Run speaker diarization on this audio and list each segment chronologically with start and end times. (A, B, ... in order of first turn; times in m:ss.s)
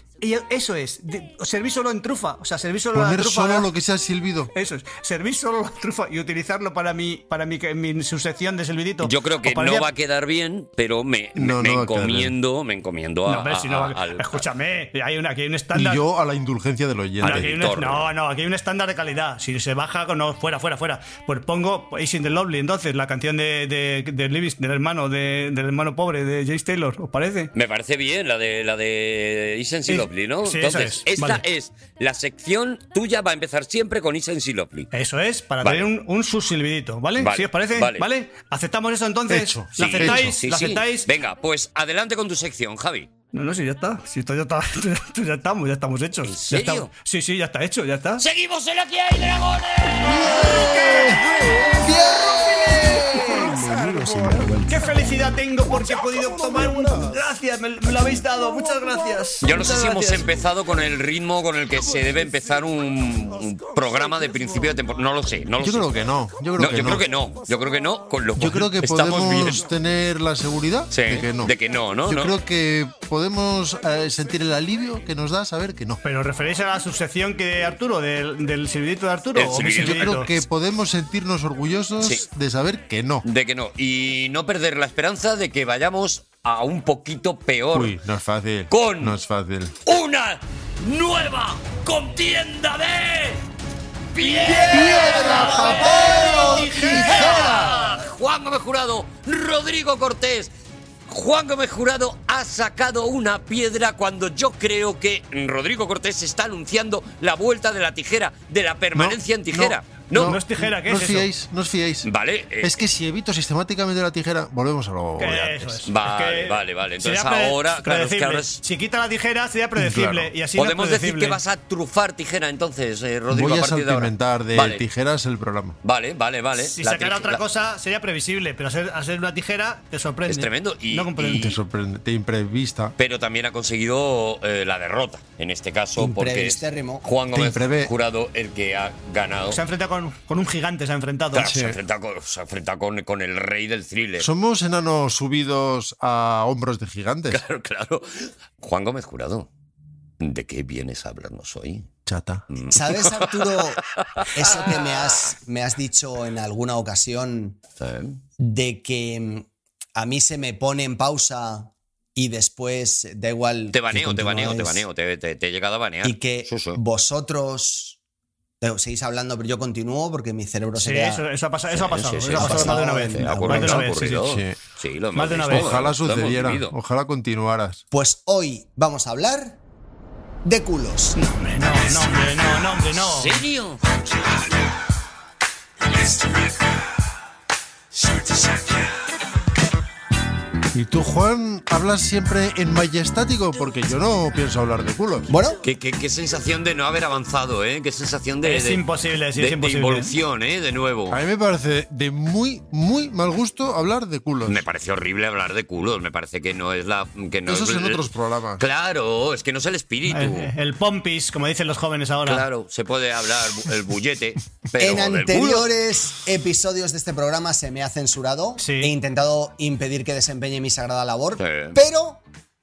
0:00.2-0:03.7 A
0:02.9-0:04.5 B
0:04.5-0:09.9 A
0:09.0-0:14.4 C
0:11.4-0:12.3 B
0:13.3-0:16.0 A
0:15.7-0:17.5 B
0:17.2-0:18.1 C
0:17.2-0:27.5 A
0:27.5-0:34.9 C
0:29.9-0:31.4 A
0:34.9-0:41.1 A
0:35.6-0:35.9 C
0:37.2-0:38.0 C
0:39.3-0:40.4 B
0:39.8-0:43.1 C
0:43.3-0:48.2 A
0:46.2-0:46.9 C
0:48.2-0:50.4 C
0:50.0-0:51.1 B
0:50.3-0:51.7 A
0:50.4-0:54.7 D
0:51.8-0:52.2 B
0:53.8-0:54.5 B
0:54.7-1:00.3 A
0:56.2-0:57.1 B
0:59.4-1:05.9 C
1:05.6-1:07.0 B
1:06.6-1:09.7 C
1:08.4-1:11.5 B
1:10.9-1:12.3 C
1:12.1-1:16.0 B
1:16.0-1:20.3 A
1:19.4-1:20.2 C
1:19.7-1:23.2 B
1:23.2-1:28.0 C
1:27.7-1:29.8 B
1:28.7-1:29.2 C
1:29.8-1:33.4 C
1:34.1-1:40.5 C
1:34.2-1:37.7 A
1:34.5-1:36.9 D
1:35.0-1:37.8 B
1:41.1-1:50.4 C
1:48.9-1:52.1 B
1:50.2-1:51.3 A
1:52.0-1:52.8 C
1:52.6-1:55.8 B
1:55.2-2:01.4 A
1:55.9-1:58.6 C
1:59.8-2:00.3 B
2:00.6-2:04.9 C
2:03.3-2:05.8 B
2:05.8-2:07.4 C
2:06.6-2:11.6 A
2:10.3-2:11.6 C
2:11.3-2:13.0 B
2:13.0-2:19.6 C
2:16.0-2:17.0 D
2:17.3-2:17.9 B
2:19.5-2:21.6 A
2:21.3-2:24.3 C
2:21.4-2:21.8 B
2:24.2-2:27.4 B
2:27.3-2:29.5 C
2:30.2-2:31.9 C
2:32.1-2:32.4 B
2:32.5-2:33.4 C
2:32.7-2:33.8 D
2:34.2-2:35.2 C
2:34.4-2:37.6 D
2:37.8-2:38.2 C
2:38.4-2:44.8 D
2:43.7-2:46.8 C
2:46.0-2:48.0 D
2:48.6-2:51.2 D
2:50.8-2:54.2 A
2:51.7-2:56.7 C
2:52.4-2:53.9 D
2:54.0-2:54.6 B
2:55.2-2:55.8 A
2:55.5-2:57.8 B
2:57.9-2:59.6 D
3:00.4-3:01.2 D
3:01.2-3:03.4 A
3:03.0-3:03.8 C
3:10.7-3:15.3 B
3:15.3-3:15.6 D
3:15.6-3:18.8 C
3:18.4-3:20.1 A
3:19.4-3:21.2 C
3:21.1-3:24.6 B
3:24.5-3:28.1 C
3:27.5-3:28.6 B
3:28.6-3:30.5 C
3:30.1-3:32.4 A
3:32.3-3:35.7 C
3:34.8-3:42.2 D
3:38.6-3:38.9 A
3:41.4-3:41.8 C